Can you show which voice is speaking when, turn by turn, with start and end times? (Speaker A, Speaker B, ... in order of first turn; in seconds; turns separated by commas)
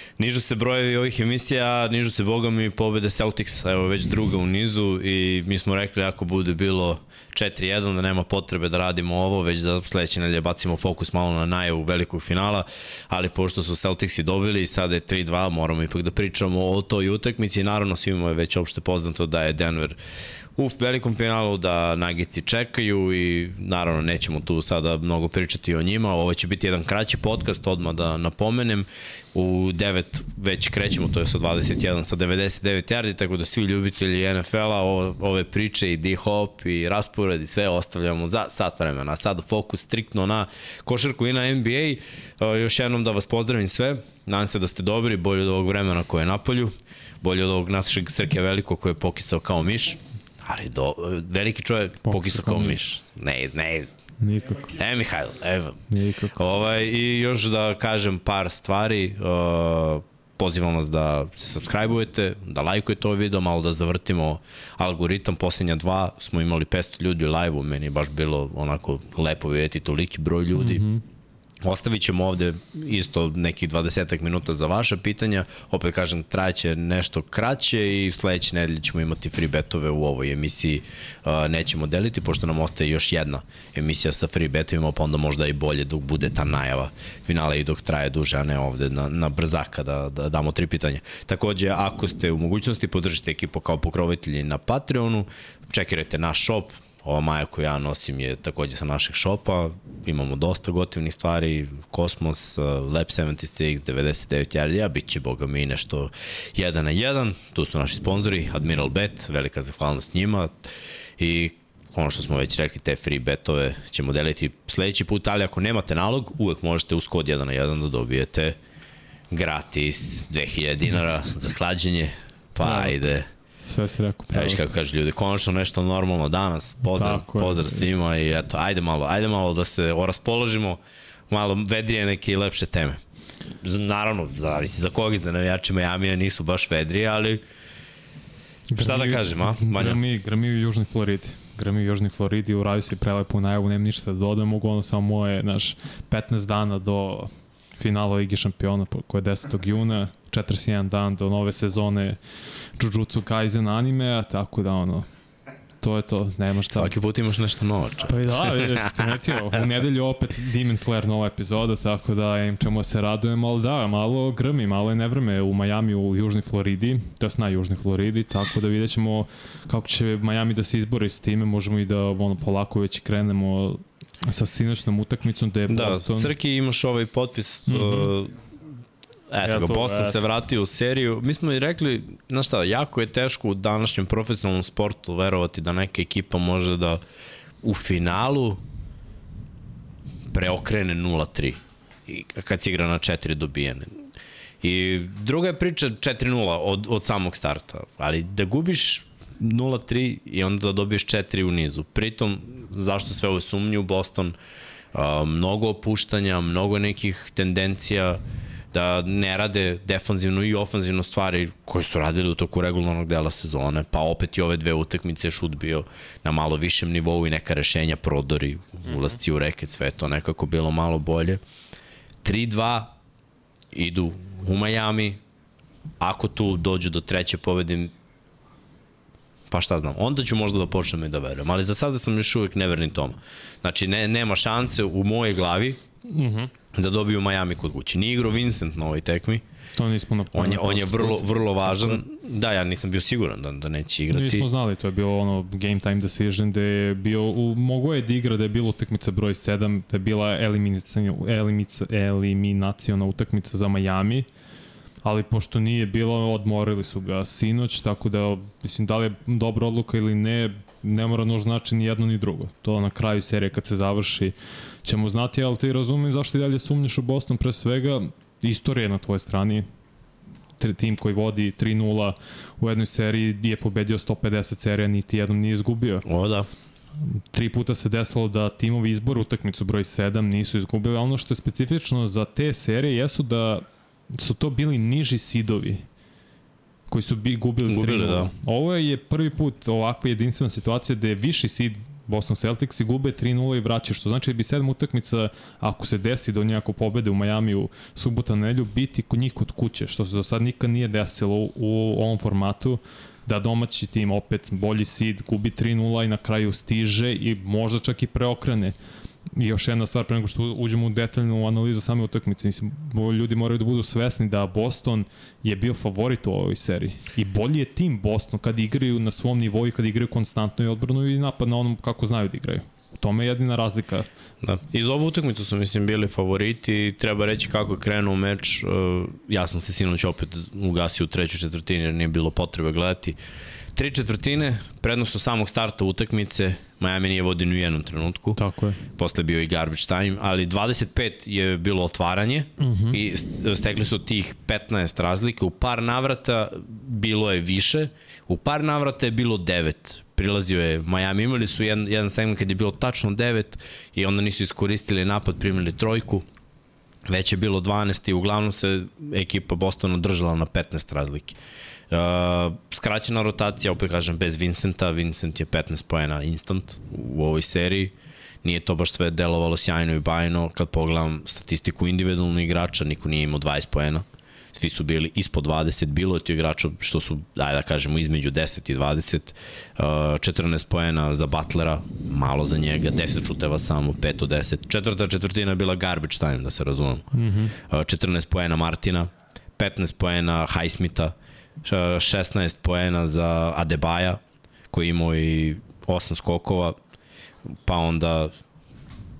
Speaker A: 0.2-20.0, Speaker A: 20.6-53.9, Speaker B: 52.0-52.8, Speaker B: 54.2-54.7, Speaker A: 54.6-55.8, Speaker B: 55.9-56.4, Speaker A: 56.3-70.8, Speaker B: 70.5-71.0, Speaker A: 71.6-118.6, Speaker A: 119.3-123.3, Speaker B: 122.6-123.0, Speaker B: 123.6-124.6, Speaker A: 124.3-133.0, Speaker B: 126.9-127.9, Speaker A: 133.6-137.4, Speaker B: 138.7-152.2, Speaker A: 138.8-140.0, Speaker B: 152.8-155.1, Speaker B: 155.8-156.9, Speaker A: 156.7-159.1, Speaker B: 158.0-176.3, Speaker A: 175.7-178.3, Speaker B: 177.7-178.1, Speaker A: 179.3-187.0, Speaker B: 179.4-180.2, Speaker A: 187.6-188.6, Speaker A: 190.3-194.0, Speaker A: 194.6-204.3, Speaker A: 204.9-208.2, Speaker A: 208.7-221.4, Speaker B: 218.9-219.1, Speaker A: 222.2-222.9, Speaker A: 223.7-225.2, Speaker A: 226.0-227.9, Speaker A: 229.5-235.8, Speaker B: 236.0-236.5, Speaker A: 236.7-239.4, Speaker B: 239.8-242.0, Speaker A: 240.3-244.5, Speaker B: 244.1-254.3, Speaker B: 255.0-269.6, Speaker B: 270.6-276.1, Speaker A: 276.1-276.5, Speaker B: 277.0-285.8, Speaker B: 286.9-308.7, Speaker A: 287.7-288.3, Speaker B: 309.4-324.1, Speaker A: 324.4-333.2, Speaker A: 333.7-356.2, Speaker B: 338.3-338.8, Speaker B: 342.6-343.0, Speaker A: 357.1-361.4, Speaker A: 361.9-394.2, Speaker B: 387.1-387.5, Speaker A: 394.7-396.8, Speaker A: 397.5-398.3